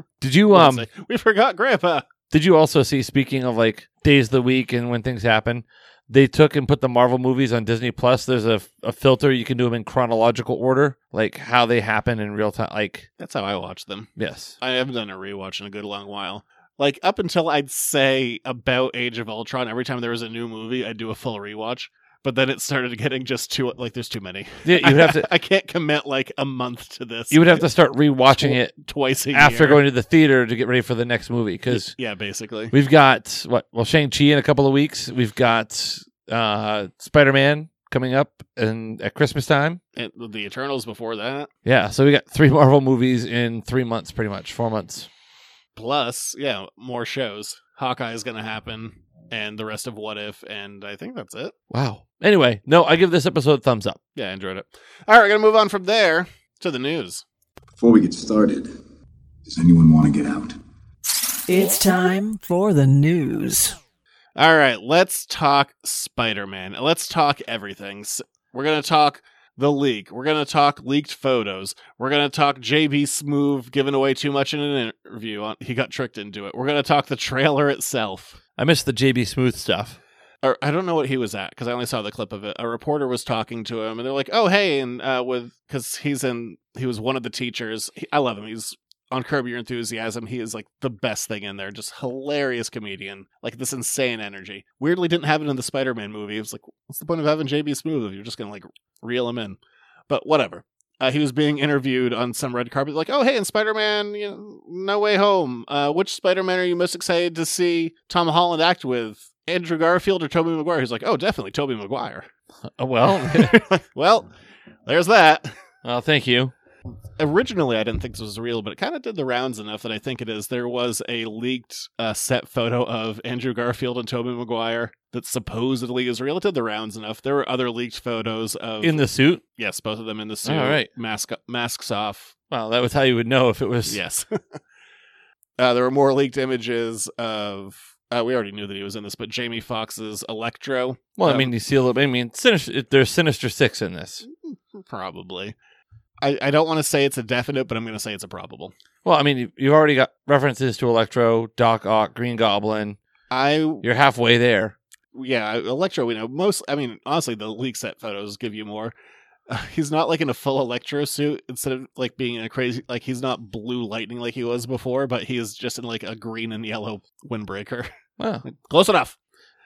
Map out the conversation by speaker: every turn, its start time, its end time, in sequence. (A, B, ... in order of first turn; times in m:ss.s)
0:00.2-0:00.9 A
0:00.5-0:02.1 B
0:02.3-0:13.1 A
0:13.2-0:27.6 B
0:14.2-0:14.6 A
0:24.6-0:25.3 A
0:27.3-0:28.7 A
0:28.3-0:29.8 B
0:29.3-0:31.9 A
0:31.7-0:32.7 B
0:32.7-0:39.8 A
0:40.0-0:41.5 B
0:41.6-0:45.1 A
0:45.8-0:51.5 B
0:51.7-0:54.0 A
0:54.2-0:57.2 B
0:57.8-0:58.7 C
0:59.5-1:00.6 C
1:01.5-1:03.8 D
1:04.4-1:18.4 B
1:18.6-1:20.0 A
1:20.4-1:39.6 B
1:40.1-1:52.3 B
1:52.8-1:53.6 A
1:53.2-1:54.3 B
1:54.9-1:55.5 B
1:55.8-1:56.5 A
1:57.2-2:12.3 B
2:08.8-2:09.4 A
2:10.4-2:10.9 A
2:12.5-2:14.0 A
2:13.9-2:14.3 B
2:15.6-2:21.5 B
2:21.2-2:24.2 A
2:24.4-2:25.6 B
2:26.2-2:28.7 B
2:29.0-2:33.0 A
2:33.3-2:33.8 B
2:33.8-2:34.8 A
2:35.1-2:38.9 B
2:39.5-2:47.9 B
2:48.2-2:48.4 A
2:48.4-2:49.2 B